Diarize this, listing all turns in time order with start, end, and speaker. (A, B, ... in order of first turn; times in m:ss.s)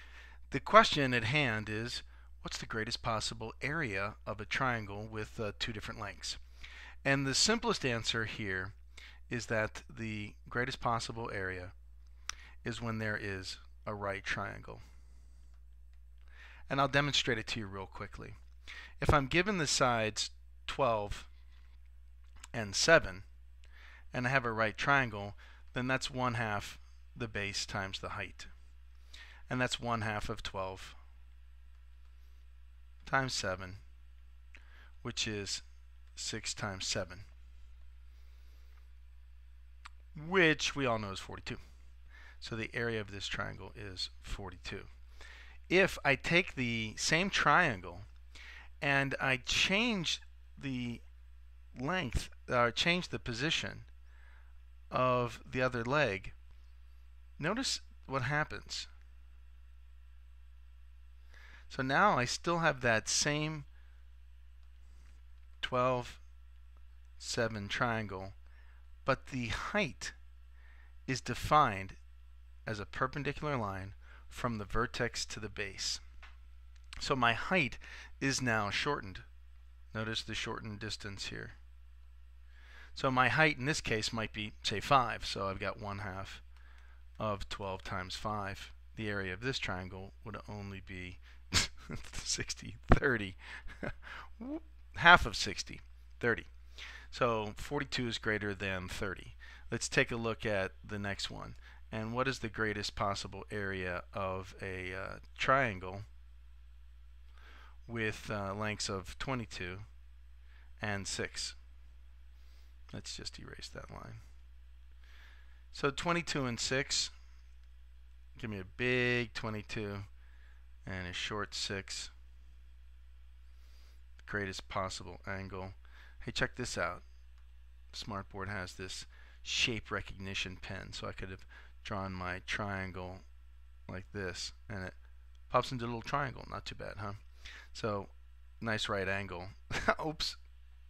0:00.5-0:06.4 A
0:07.0-0:08.7 A
0:09.3-0:11.7 A
0:12.6-0:14.8 A
0:16.7-0:18.4 A
0:19.0-0:21.3 A
0:22.5-0:23.2 A
0:24.1-0:28.5 A
0:29.5-0:31.0 A
0:33.0-0:33.8 A
0:35.0-0:35.6 A
0:36.2-0:37.3 A
0:40.1-0:41.6 A
0:42.4-0:44.9 A
0:45.7-0:48.1 A
0:48.8-0:51.0 A
0:51.7-0:53.9 A
0:54.9-0:56.4 A
0:57.4-0:58.9 A
1:01.7-1:03.7 A
1:05.6-1:06.2 A
1:07.2-1:08.4 A
1:09.0-1:10.2 A
1:11.1-1:12.0 A
1:12.6-1:16.0 A
1:17.0-1:19.2 A
1:19.9-1:21.6 A
1:22.9-1:26.4 A
1:27.2-1:36.5 A
1:37.1-1:46.1 A
1:47.9-1:49.9 A
1:50.8-1:51.6 A
1:52.9-1:54.2 A
1:55.7-1:57.1 A
1:58.4-2:00.1 A
2:00.8-2:02.1 A
2:04.2-2:07.0 A
2:07.9-2:13.2 A
2:13.9-2:15.0 A
2:15.5-2:20.4 A